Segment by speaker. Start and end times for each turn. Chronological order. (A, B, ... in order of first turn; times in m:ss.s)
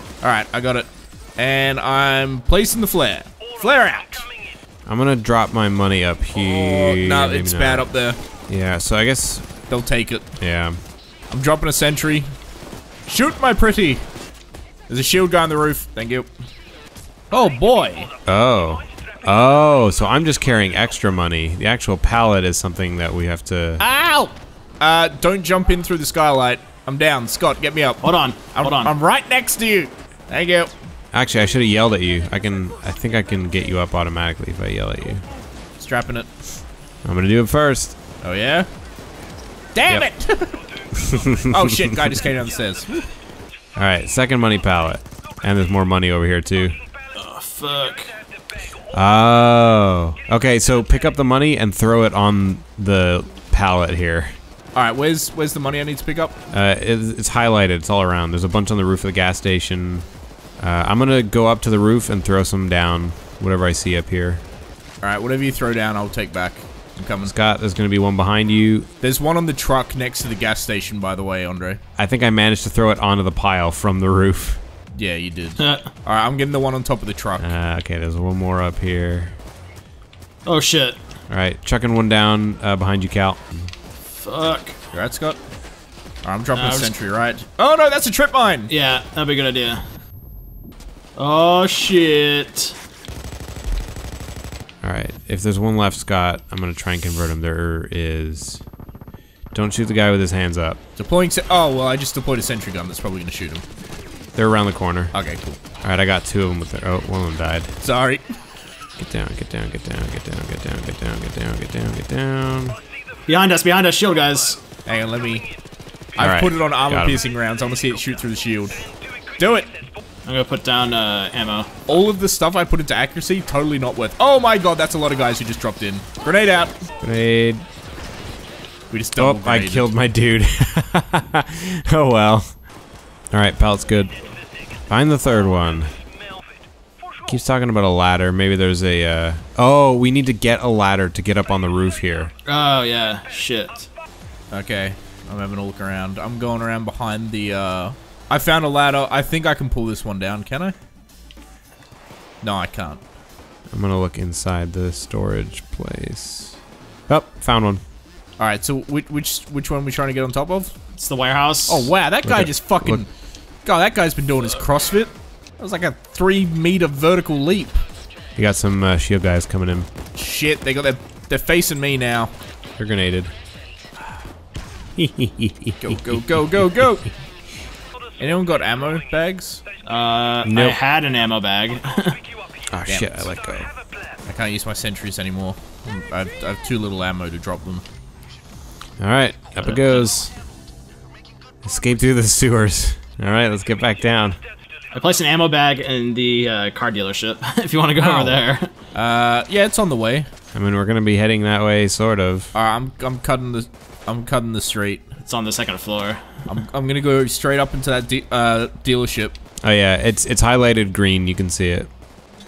0:00.2-0:04.3 A
0:04.9-0:07.9 B
0:06.3-0:08.2 A
0:08.5-0:09.5 B
0:09.7-0:10.3 A
0:10.4-0:10.8 B
0:11.3-0:12.3 A
0:13.1-0:14.0 A
0:14.9-0:16.3 A
0:17.3-0:18.1 A
0:18.3-0:23.8 B
0:23.8-0:30.7 A
0:28.0-0:28.9 C
0:31.1-0:35.2 B
0:35.8-0:36.3 A
0:37.0-0:38.0 B
0:38.2-0:38.7 A
0:39.7-0:40.6 A
0:41.0-0:41.5 B
0:41.3-0:43.0 A
0:43.8-0:46.8 B
0:47.2-0:48.1 C
0:48.9-0:54.4 B
0:54.8-0:56.4 A
0:56.5-1:00.1 B
1:00.6-1:04.4 B
1:05.0-1:07.4 A
1:07.3-1:08.9 B
1:09.0-1:11.8 A
1:12.0-1:14.6 B
1:15.0-1:17.5 A
1:15.6-1:15.9 C
1:17.4-1:19.4 B
1:20.4-1:21.0 C
1:21.3-1:23.7 B
1:24.1-1:24.8 C
1:24.9-1:25.4 A
1:26.2-1:28.7 A
1:26.5-1:26.9 C
1:28.7-1:29.8 C
1:31.2-1:32.8 C
1:34.8-1:38.6 B
1:39.5-1:40.8 B
1:41.0-1:43.6 A
1:44.4-1:45.1 B
1:45.1-1:45.6 A
1:45.8-1:47.7 B
1:47.8-1:48.3 A
1:49.0-1:52.8 B
1:53.3-1:54.6 C
1:54.8-1:55.5 A
1:56.2-1:58.8 A
1:56.2-1:57.2 B
1:59.4-1:59.8 A
2:00.3-2:01.7 C
2:01.9-2:06.8 A
2:07.0-2:07.6 B
2:08.9-2:09.9 A
2:09.2-2:12.5 B
2:13.3-2:14.1 B
2:14.9-2:15.9 B
2:17.3-2:22.3 B
2:22.4-2:23.9 C
2:24.5-2:30.8 A
2:32.4-2:33.0 A
2:33.7-2:37.8 B
2:38.4-2:40.8 A
2:41.0-2:41.9 C
2:41.7-2:43.1 A
2:42.2-2:43.0 B
2:43.6-2:47.8 A
2:48.4-2:49.9 B
2:50.1-2:52.3 A
2:52.8-2:53.3 B
2:55.0-2:56.1 B
2:55.8-2:57.1 A
2:58.2-2:59.6 A
2:59.9-3:02.2 C
3:00.4-3:00.8 B
3:02.7-3:03.7 B
3:02.9-3:03.3 A
3:04.3-3:07.8 A
3:09.0-3:10.3 B
3:09.6-3:10.1 C
3:11.6-3:14.4 B
3:14.9-3:18.7 C
3:18.0-3:18.4 B
3:18.9-3:20.3 A
3:20.5-3:22.5 B
3:22.5-3:25.1 A
3:25.2-3:26.4 C
3:26.5-3:29.4 A
3:29.6-3:31.9 B